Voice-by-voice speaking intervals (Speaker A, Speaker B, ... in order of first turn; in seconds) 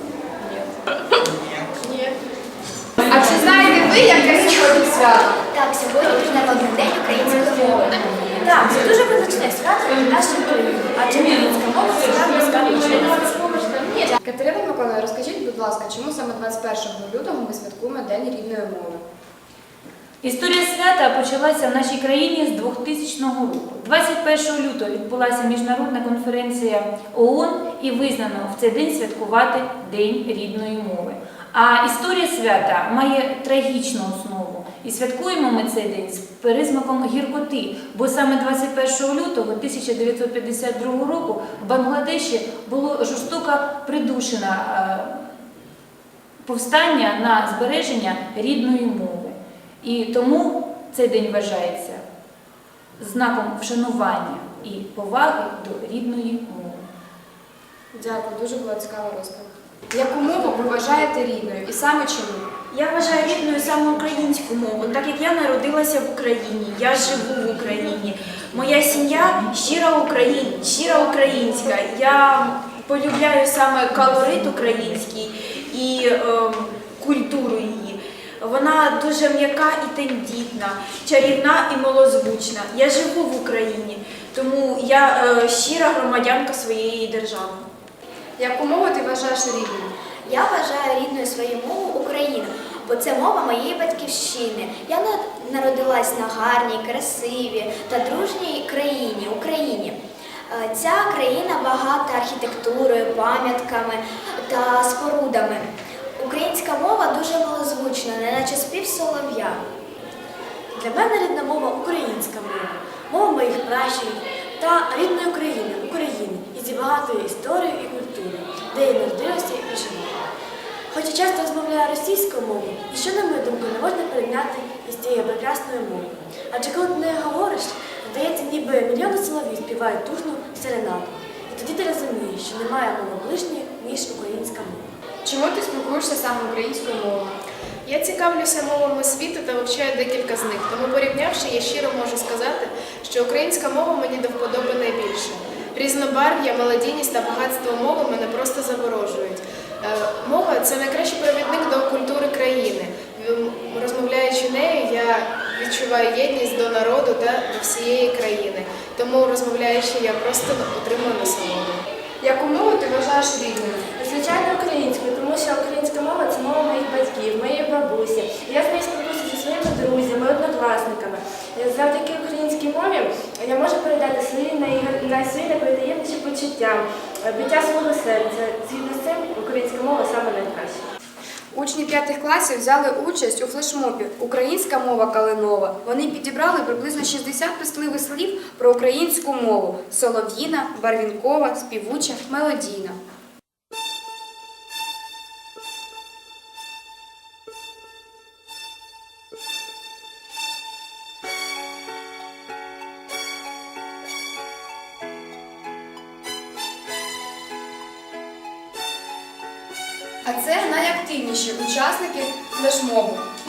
Speaker A: 3.0-5.4, 13.8-19.0, 57.9-62.5, 88.4-90.0, 135.2-137.4, 162.2-163.9, 181.5-193.0, 210.2-213.2
Speaker B: 5.5-8.4, 90.2-100.0, 100.5-109.6
Speaker C: 8.4-13.5, 110.7-120.2, 120.9-134.9, 164.0-180.8
Speaker D: 20.2-45.3, 46.4-52.0, 53.0-56.9
Speaker E: 62.7-87.7
Speaker F: 137.9-161.8